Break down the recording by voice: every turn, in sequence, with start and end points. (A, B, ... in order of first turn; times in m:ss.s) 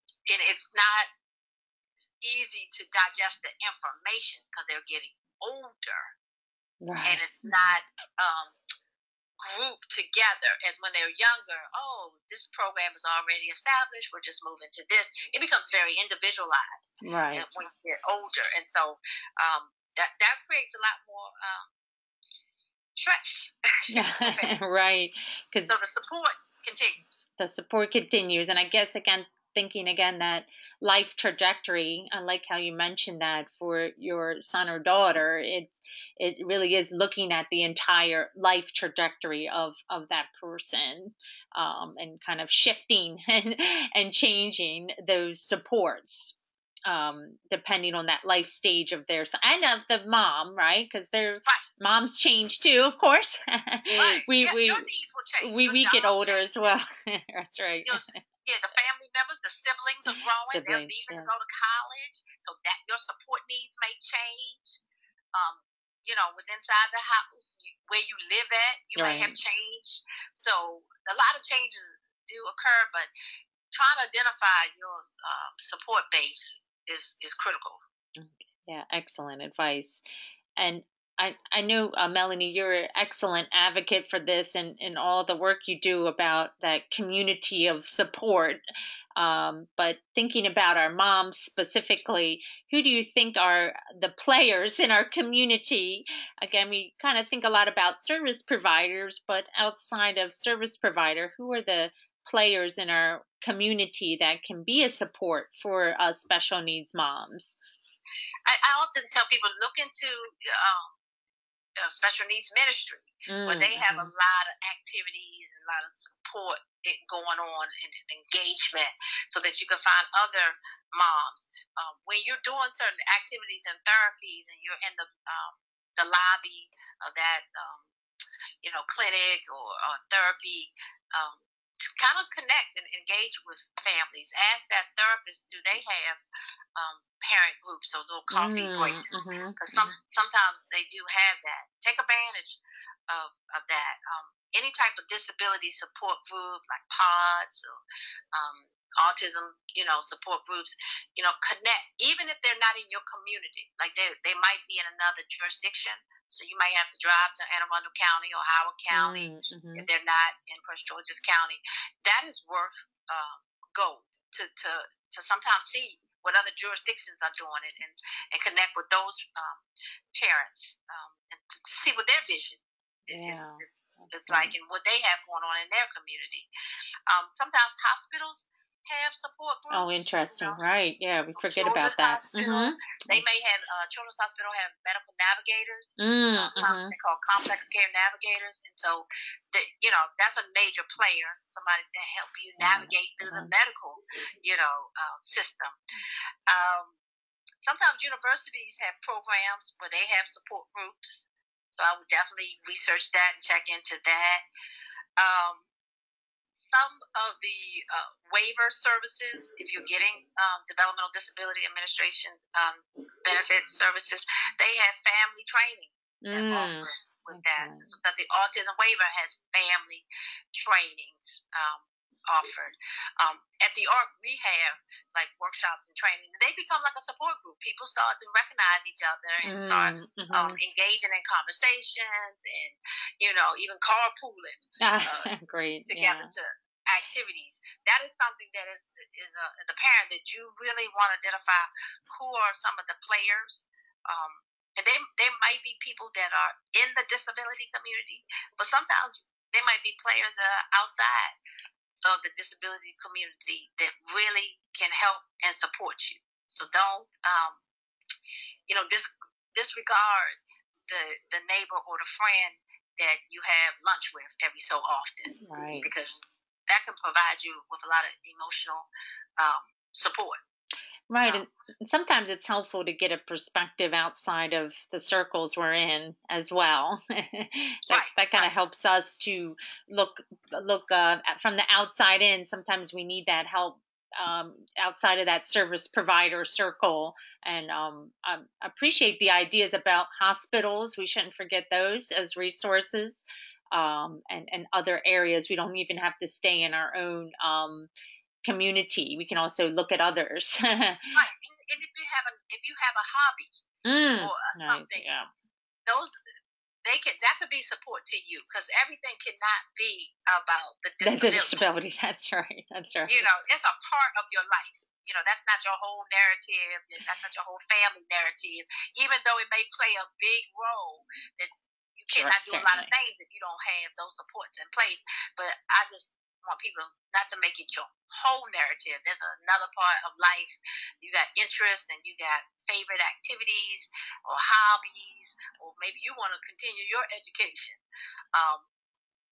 0:00.3-0:01.1 A
0:02.2-0:06.1 A
0:06.8-0:07.7 B
0:07.0-0:08.5 A
0:09.4-0:21.7 A
0:17.0-0:17.4 B
0:23.0-0:24.6 A
0:23.9-0:25.8 B
0:25.7-0:27.2 A
0:27.4-0:54.9 B
0:53.9-0:56.7 A
0:55.4-0:58.2 B
0:57.8-1:04.8 A
1:00.4-1:01.3 B
1:05.3-1:13.1 A
1:09.0-1:09.3 B
1:13.7-1:17.8 A
1:18.2-1:20.0 B
1:20.6-1:28.6 B
1:29.2-1:47.6 B
1:48.4-1:51.0 A
1:51.8-2:07.9 A
1:53.3-1:54.1 B
2:08.6-2:16.2 A
2:16.8-2:27.7 A
2:18.3-2:19.9 B
2:28.3-2:56.5 A
2:38.9-2:39.9 B
2:53.1-2:54.5 B
2:57.1-3:00.6 A
2:59.7-3:03.2 B
3:01.4-3:15.8 A
3:06.0-3:06.9 B
3:12.6-3:13.5 B
3:16.5-3:17.0 A
3:17.6-3:24.4 A
3:25.2-3:25.6 A
3:26.7-3:55.3 A
3:36.2-3:37.9 B
3:49.4-3:50.6 B
3:54.8-3:56.3 B
3:55.9-4:11.3 A
4:12.0-4:17.6 A
4:18.7-4:20.4 A
4:20.9-4:28.9 A
4:25.4-4:25.9 B
4:29.4-4:30.4 A
4:31.1-4:57.9 B
4:37.9-4:38.5 A
4:58.4-5:01.2 B
5:01.1-5:03.5 A
5:03.8-5:05.3 B
5:04.2-5:05.0 A
5:05.9-5:06.2 A
5:06.8-5:11.6 A
5:11.0-5:13.3 B
5:13.1-5:37.8 A
5:22.1-5:22.9 B
5:38.3-5:38.6 A